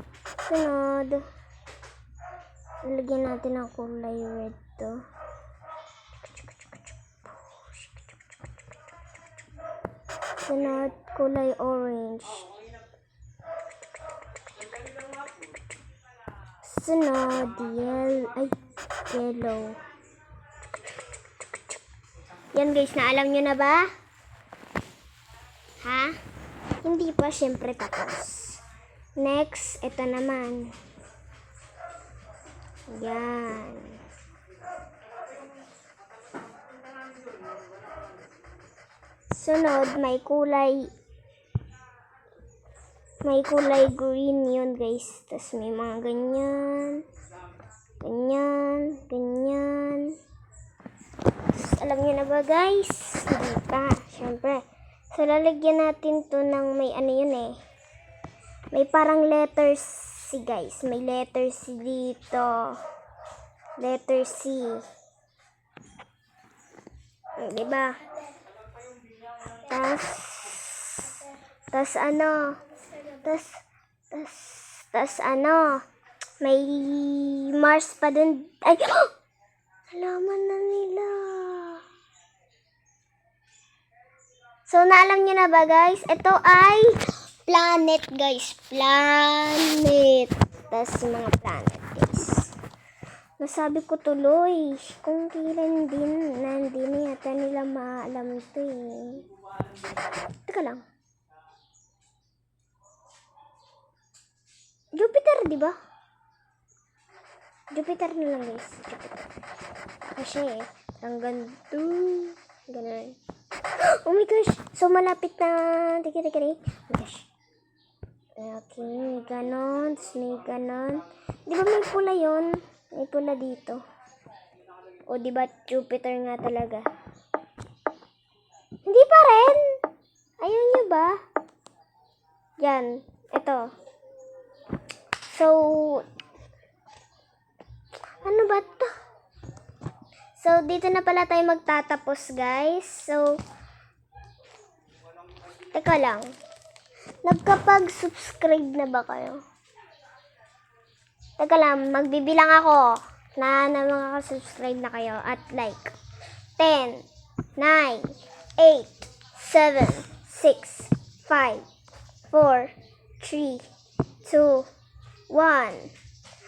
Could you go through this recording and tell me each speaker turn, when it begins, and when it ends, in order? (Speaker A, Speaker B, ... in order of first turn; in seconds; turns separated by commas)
Speaker A: 0.5-1.2, Speaker A: 2.8-5.0, Speaker A: 6.1-8.7, Speaker A: 10.4-12.5, Speaker A: 16.6-18.5, Speaker A: 19.1-19.8, Speaker A: 21.4-21.8, Speaker A: 22.5-23.9, Speaker A: 25.8-26.2, Speaker A: 26.8-28.6, Speaker A: 29.2-30.8, Speaker A: 32.9-34.0, Speaker A: 39.3-40.9, Speaker A: 43.2-47.1, Speaker A: 48.0-50.2, Speaker A: 51.5-57.6, Speaker A: 58.7-62.8, Speaker A: 63.8-64.8, Speaker A: 67.4-68.2, Speaker A: 69.5-75.8, Speaker A: 76.4-79.1, Speaker A: 79.9-81.8, Speaker A: 84.7-92.5, Speaker A: 93.4-99.3, Speaker A: 100.4-100.8, Speaker A: 105.0-105.8, Speaker A: 107.7-109.3, Speaker A: 110.0-113.2, Speaker A: 113.8-117.3, Speaker A: 118.4-123.8, Speaker A: 125.1-126.9, Speaker A: 128.8-129.8, Speaker A: 130.4-131.2, Speaker A: 132.6-133.7, Speaker A: 135.3-136.1, Speaker A: 138.2-138.9, Speaker A: 140.4-143.4, Speaker A: 145.7-146.3, Speaker A: 147.2-149.4, Speaker A: 151.4-155.9, Speaker A: 156.6-161.7, Speaker A: 162.3-163.7, Speaker A: 164.2-164.7, Speaker A: 165.3-165.9